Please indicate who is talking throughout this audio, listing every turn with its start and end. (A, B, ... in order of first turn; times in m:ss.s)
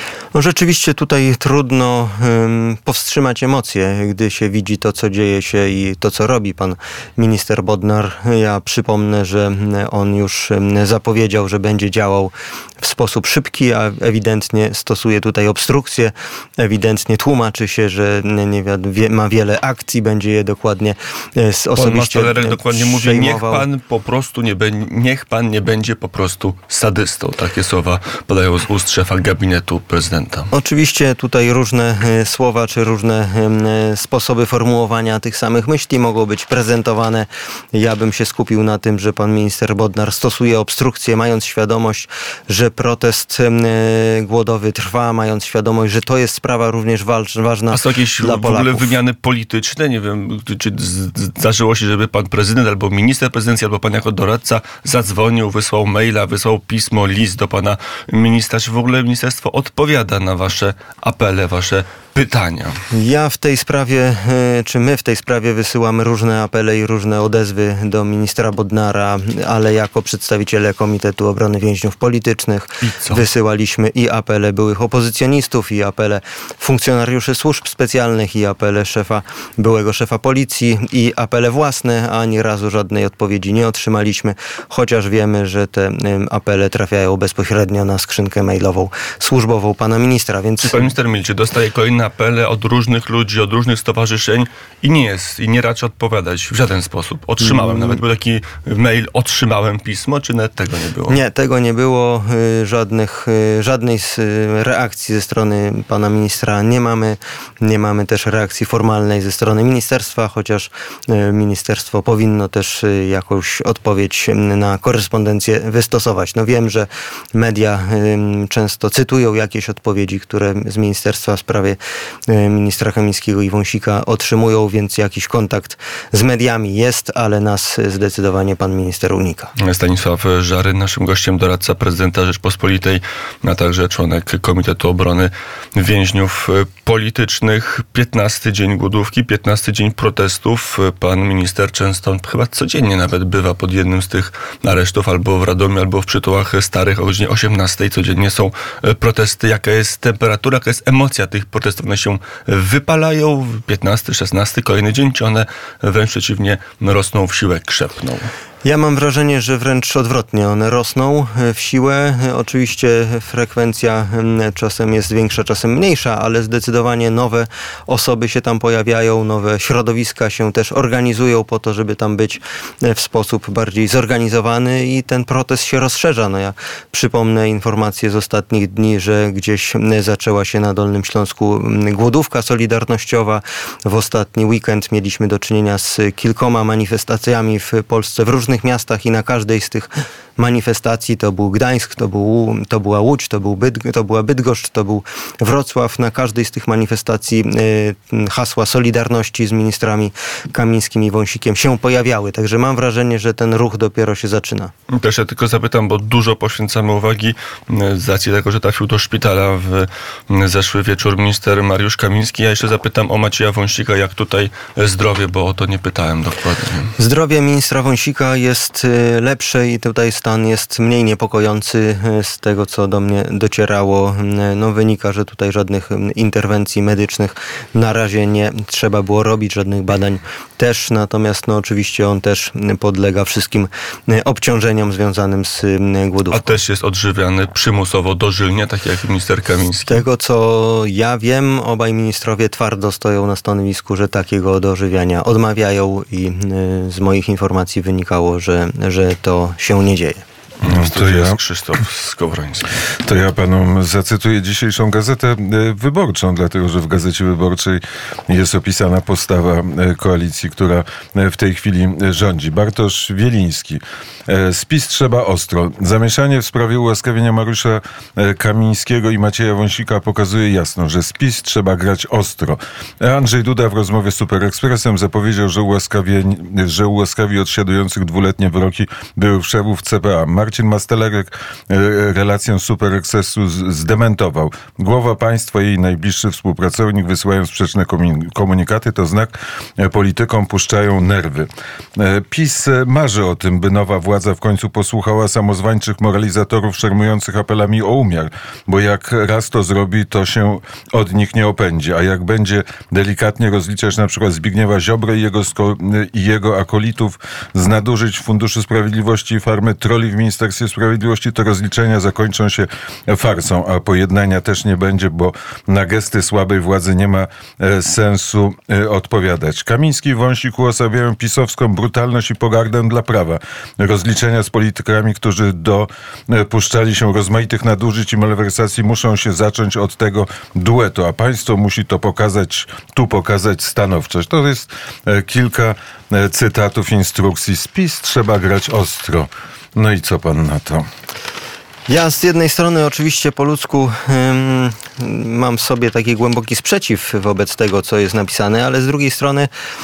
0:00.3-0:23.6 A
0:21.8-0:30.5 B
0:30.5-0:49.0 A
0:47.7-1:02.8 B
1:02.9-1:30.9 A
1:12.8-1:13.2 B
1:30.6-1:41.2 B
1:37.4-1:37.9 A
1:41.1-2:09.5 A
2:09.6-2:38.3 B
2:38.6-3:24.7 A
3:24.9-3:36.9 B
3:37.0-3:56.5 A
3:56.3-4:00.0 B
3:59.9-4:10.2 A
4:10.6-4:12.8 B
4:10.6-4:11.4 C
4:13.0-5:40.8 C
5:41.9-5:49.5 A